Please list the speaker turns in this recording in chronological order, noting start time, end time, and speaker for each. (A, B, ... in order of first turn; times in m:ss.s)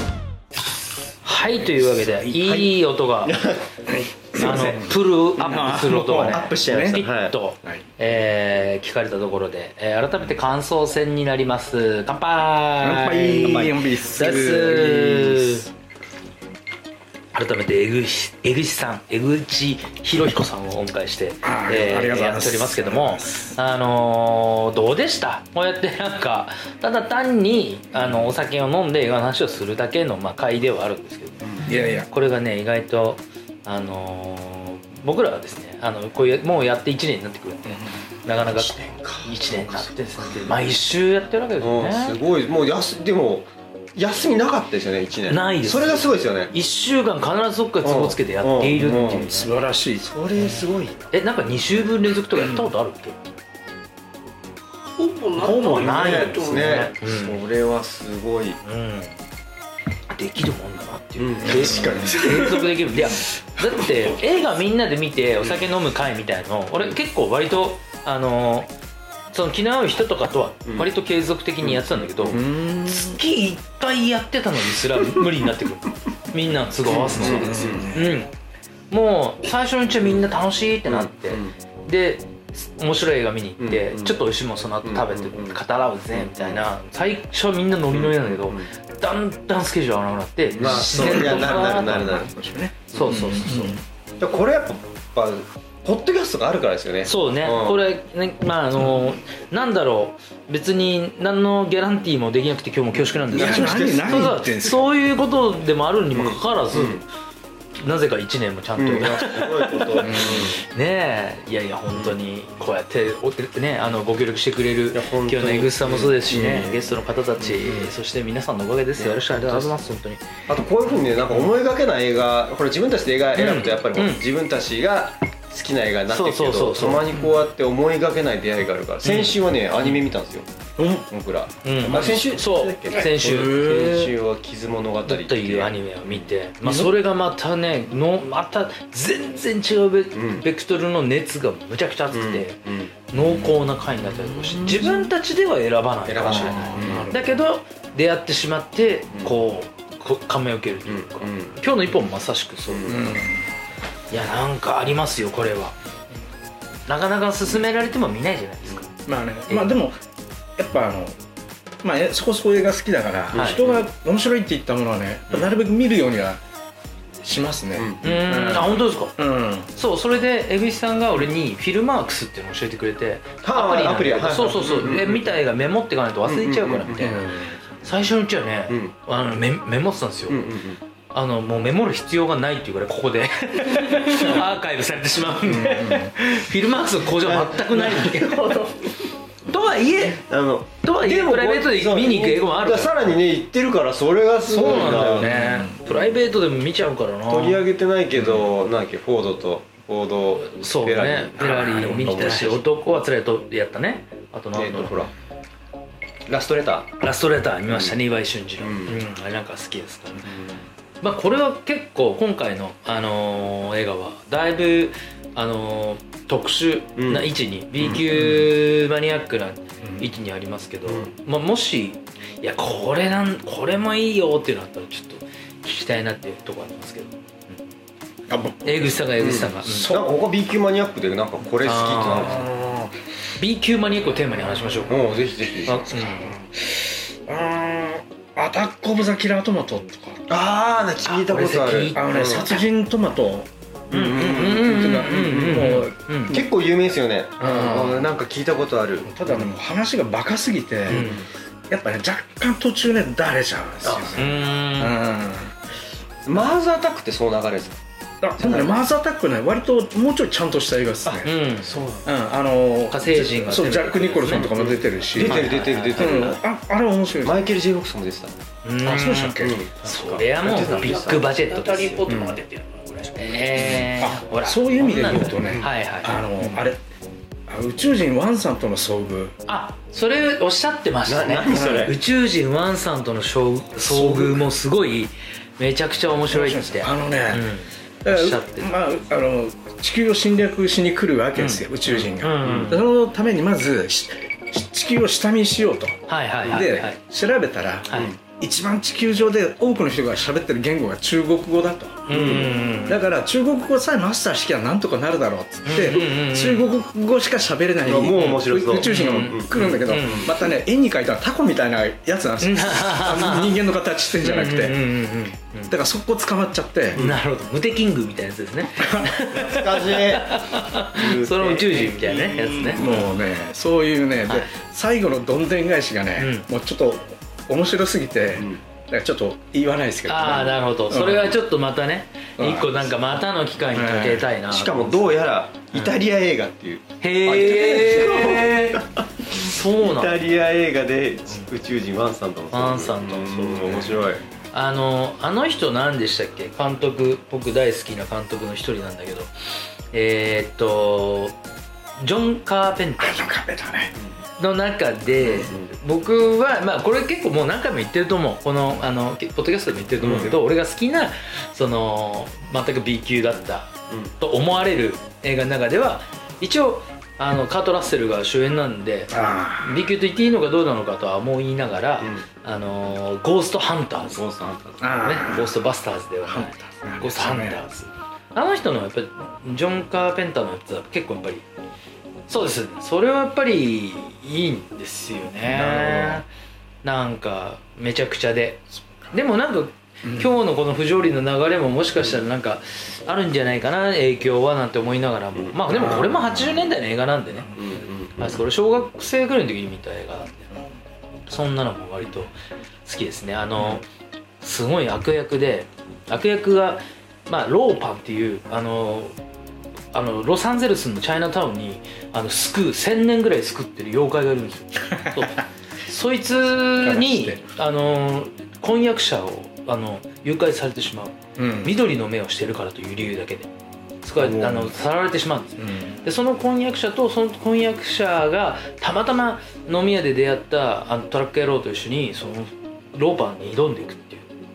0:01.2-0:03.3 A
0:01.6-0:02.3 B
0:02.3-0:02.7 C
0:03.2-0:03.8 C
0:03.9-0:07.0 B
0:04.3-0:04.8 C
0:04.4-0:15.7 A
0:06.2-0:07.3 C
0:12.8-0:15.7 B
0:13.5-0:13.8 C
0:17.3-0:42.2 A
0:21.4-0:23.6 B
0:31.6-0:32.1 B
0:38.3-0:40.5 C
0:41.6-0:46.5 C
0:45.3-0:49.5 A
0:47.8-0:49.3 C
0:49.1-0:50.1 B
0:50.0-0:51.1 C
0:50.4-0:53.2 A
0:54.9-0:56.9 D
0:55.4-0:56.5 B
0:55.8-0:57.4 A
0:55.8-0:58.6 C
0:58.6-0:59.2 A
1:00.1-1:08.7 A
1:01.2-1:02.2 C
1:01.4-1:02.8 B
1:09.3-1:18.3 A
1:11.6-1:12.4 C
1:12.3-1:13.2 B
1:16.8-1:17.9 C
1:17.2-1:18.2 B
1:18.9-1:32.2 A
1:20.9-1:21.5 C
1:23.6-1:24.2 C
1:24.8-1:25.6 C
1:26.1-1:26.6 C
1:27.9-1:28.7 C
1:30.5-1:32.3 C
1:30.6-1:33.8 B
1:32.9-1:33.8 A
1:32.9-1:33.2 C
1:34.2-1:37.8 C
1:37.0-1:47.0 A
1:42.9-1:44.3 C
1:43.3-1:44.8 B
1:46.1-1:47.0 C
1:47.8-2:00.2 A
1:48.8-1:50.6 C
1:50.0-1:50.4 B
1:54.9-1:56.3 C
1:56.3-1:56.8 B
1:57.4-1:57.9 C
1:59.0-1:59.7 C
2:00.5-2:10.5 C
2:03.3-2:04.2 A
2:06.1-2:07.1 A
2:09.0-2:09.4 A
2:10.8-2:11.1 B
2:11.1-2:16.3 C
2:11.6-2:13.8 A
2:11.9-2:12.1 B
2:13.2-2:14.1 B
2:15.0-2:33.1 A
2:16.6-2:16.9 B
2:20.1-2:20.4 C
2:22.1-2:23.0 C
2:24.5-2:24.8 B
2:24.5-2:25.1 C
2:26.0-2:27.0 C
2:26.2-2:27.3 B
2:30.8-2:31.6 C
2:32.7-2:33.0 C
2:32.9-2:33.5 B
2:34.1-2:35.7 A
2:36.9-2:38.9 A
2:39.0-2:40.0 B
2:40.6-2:41.2 B
2:41.8-2:46.4 B
2:43.3-2:43.6 A
2:43.3-2:43.9 C
2:47.2-2:49.7 B
2:47.8-2:48.1 C
2:48.0-2:49.1 A
2:49.7-3:00.5 A
2:53.4-2:55.3 C
2:56.2-2:57.2 C
2:57.0-2:57.6 B
2:58.7-2:58.9 C
3:00.3-3:00.8 C
3:01.1-3:08.7 A
3:05.4-3:06.1 B
3:07.2-3:08.8 C
3:09.5-3:10.2 A
3:10.3-3:15.3 C
3:10.8-3:13.0 A
3:14.5-3:17.6 A
3:14.6-3:15.8 B
3:17.3-3:22.7 C
3:20.4-3:25.0 A
3:21.6-3:22.1 B
3:24.5-3:25.1 C
3:26.3-3:26.9 C
3:27.0-3:30.4 A
3:27.7-3:28.0 C
3:28.6-3:29.0 C
3:30.2-3:30.6 C
3:31.0-3:47.1 A
3:37.0-3:38.1 C
3:38.1-3:38.5 B
3:39.8-3:40.1 B
3:40.9-3:41.1 C
3:48.3-3:48.9 B
3:48.6-3:50.0 A
3:49.2-3:52.5 C
3:49.7-3:50.0 B
3:51.6-3:52.5 A
3:52.2-3:53.0 B
3:53.4-3:55.1 A
3:54.9-3:56.0 C
3:55.6-3:56.4 A
3:55.9-4:00.2 B
4:00.3-4:02.6 C
4:01.0-4:02.4 A
4:01.9-4:03.5 B
4:03.9-4:09.4 C
4:03.9-4:06.4 A
4:04.1-4:06.4 B
4:07.4-4:08.0 B
4:09.0-4:11.1 B
4:10.9-4:11.2 A
4:10.9-4:11.2 C
4:11.7-4:15.5 B
4:13.8-4:14.2 C
4:14.1-4:15.0 A
4:16.2-4:17.8 C
4:18.2-4:21.3 B
4:18.4-4:18.8 C
4:21.0-4:22.1 C
4:21.2-4:21.7 A
4:22.0-4:27.4 B
4:22.9-4:26.4 A
4:24.3-4:26.4 C
4:27.2-4:28.3 C
4:28.6-4:32.0 A
4:28.8-4:29.6 B
4:29.4-4:31.3 C
4:30.7-4:33.7 D
4:32.1-4:32.4 B
4:33.2-4:36.3 A
4:33.6-4:36.8 B
4:37.5-4:39.3 B
4:39.4-4:48.7 A
4:41.0-4:42.0 C
4:43.8-4:44.5 C
4:46.3-4:47.5 B
4:48.0-5:14.8 B
4:51.4-4:52.8 A
4:52.4-4:52.8 C
4:56.1-4:57.0 A
4:57.9-4:58.2 A
5:02.1-5:03.0 A
5:02.1-5:02.5 C
5:05.6-5:06.7 A
5:07.8-5:10.3 C
5:08.2-5:10.4 A
5:12.4-5:13.6 A
5:14.2-5:15.7 A
5:15.7-5:17.0 B
5:16.9-5:17.2 C
5:16.9-5:23.1 A
5:18.8-5:19.1 B
5:19.2-5:20.4 C
5:20.9-5:22.9 C
5:22.4-5:31.4 B
5:24.2-5:24.5 A
5:26.2-5:26.5 A
5:30.1-5:35.2 A
5:32.4-5:33.0 B
5:33.7-5:34.3 B
5:34.5-5:44.2 C
5:37.0-5:40.2 A
5:42.5-5:44.0 A
5:44.5-5:49.3 A
5:49.9-5:51.3 A
5:52.0-5:53.3 A
5:53.0-5:53.9 B
5:54.4-6:14.2 A
5:55.2-5:55.7 C
6:00.0-6:00.4 C
6:09.1-6:09.8 B
6:14.1-6:15.3 C
6:14.8-6:15.6 B
6:15.0-6:21.4 A
6:16.2-6:17.6 B
6:22.3-6:26.2 A
6:25.6-6:26.0 B
6:25.6-6:26.2 C
6:26.8-6:37.5 A
6:35.3-6:36.2 C
6:35.8-6:36.7 B
6:37.6-6:38.4 C
6:38.2-6:40.5 A
6:41.3-6:42.3 A
6:42.8-6:43.8 A
6:44.4-6:49.1 A
6:49.9-7:03.5 A
6:56.8-6:57.4 B
7:01.4-7:01.7 B
7:04.0-7:14.3 A
7:04.2-7:04.7 C
7:05.6-7:06.0 B